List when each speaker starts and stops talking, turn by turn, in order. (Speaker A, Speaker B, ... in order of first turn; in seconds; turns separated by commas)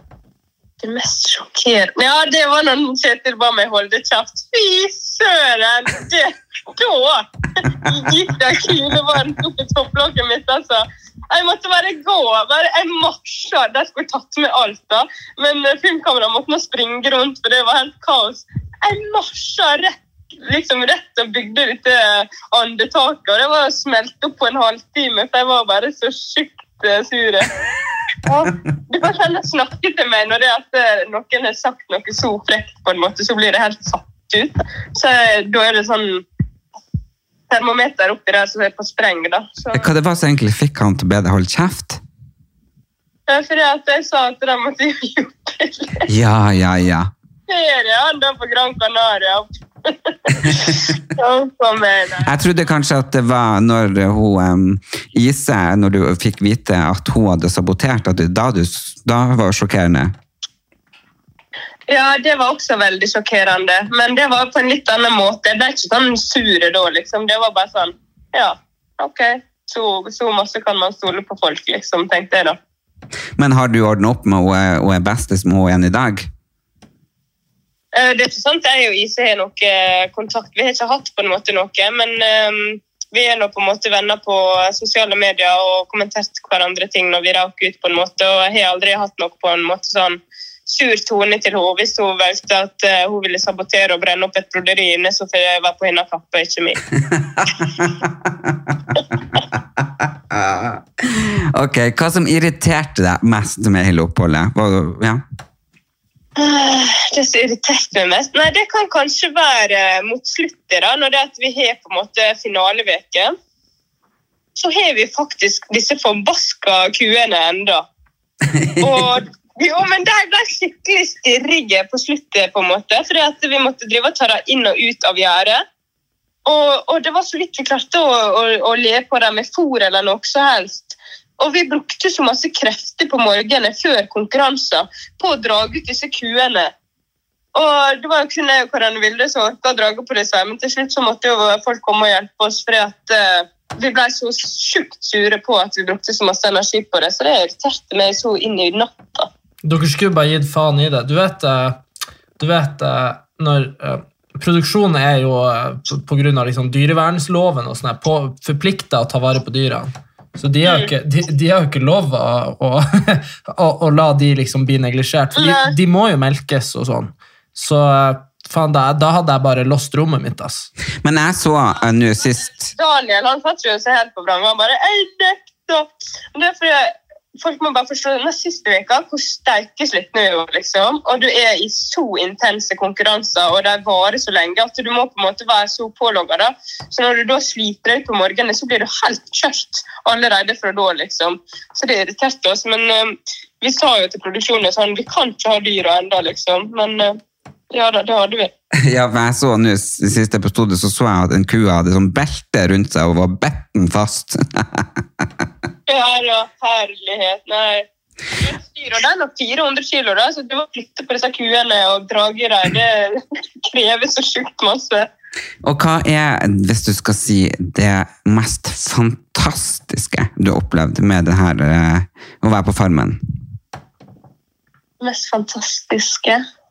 Speaker A: 0.8-27.5, Speaker A: 28.2-36.2, Speaker A: 37.5-39.9, Speaker B: 39.7-42.0, Speaker A: 43.3-46.1, Speaker B: 46.1-47.1, Speaker A: 47.5-52.3, Speaker B: 52.2-60.1, Speaker A: 61.9-72.6, Speaker B: 73.4-76.3, Speaker A: 77.9-96.9, Speaker B: 97.1-99.0, Speaker B: 99.8-105.2, Speaker A: 106.4-113.3, Speaker A: 114.6-117.9, Speaker B: 118.5-119.1, Speaker A: 118.8-125.6, Speaker A: 126.5-136.7, Speaker A: 137.6-149.3, Speaker C: 149.6-151.8, Speaker C: 152.4-170.7, Speaker A: 160.6-160.9, Speaker A: 165.4-165.7, Speaker B: 171.0-172.7, Speaker A: 172.8-197.2, Speaker A: 197.7-198.5, Speaker B: 198.8-205.3, Speaker A: 205.9-215.1, Speaker B: 215.6-223.2, Speaker A: 225.0-226.4